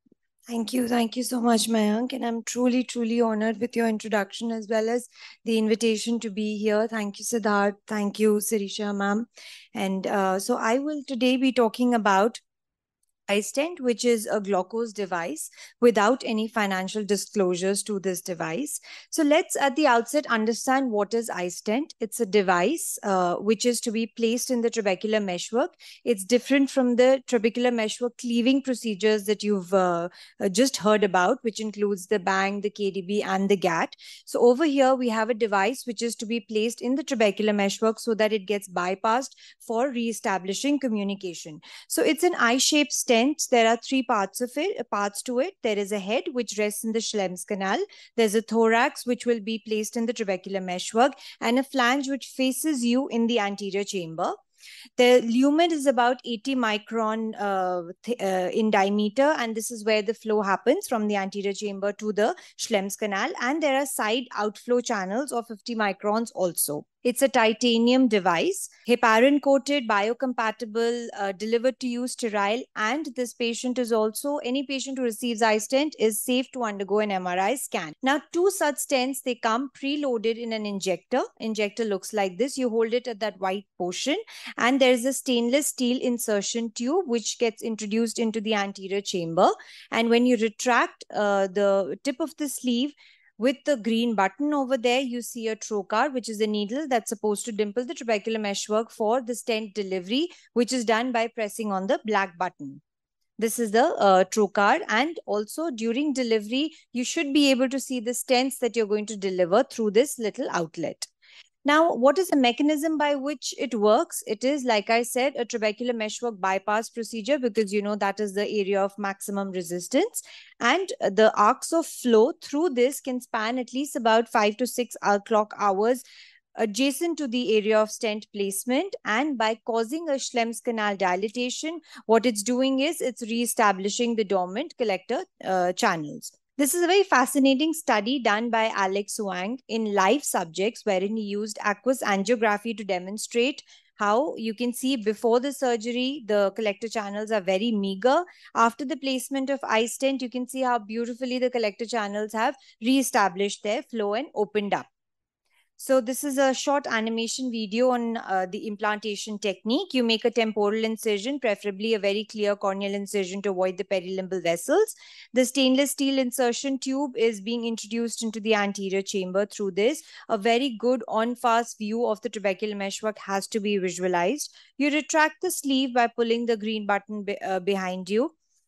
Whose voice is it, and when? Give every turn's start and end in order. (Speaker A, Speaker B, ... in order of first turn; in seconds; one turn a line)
Speaker A: 0.5-12.4
Speaker A: 13.3-54.4
Speaker A: 55.0-102.8
Speaker A: 103.4-111.1
Speaker A: 111.6-126.0
Speaker A: 126.6-154.9
Speaker A: 155.8-178.3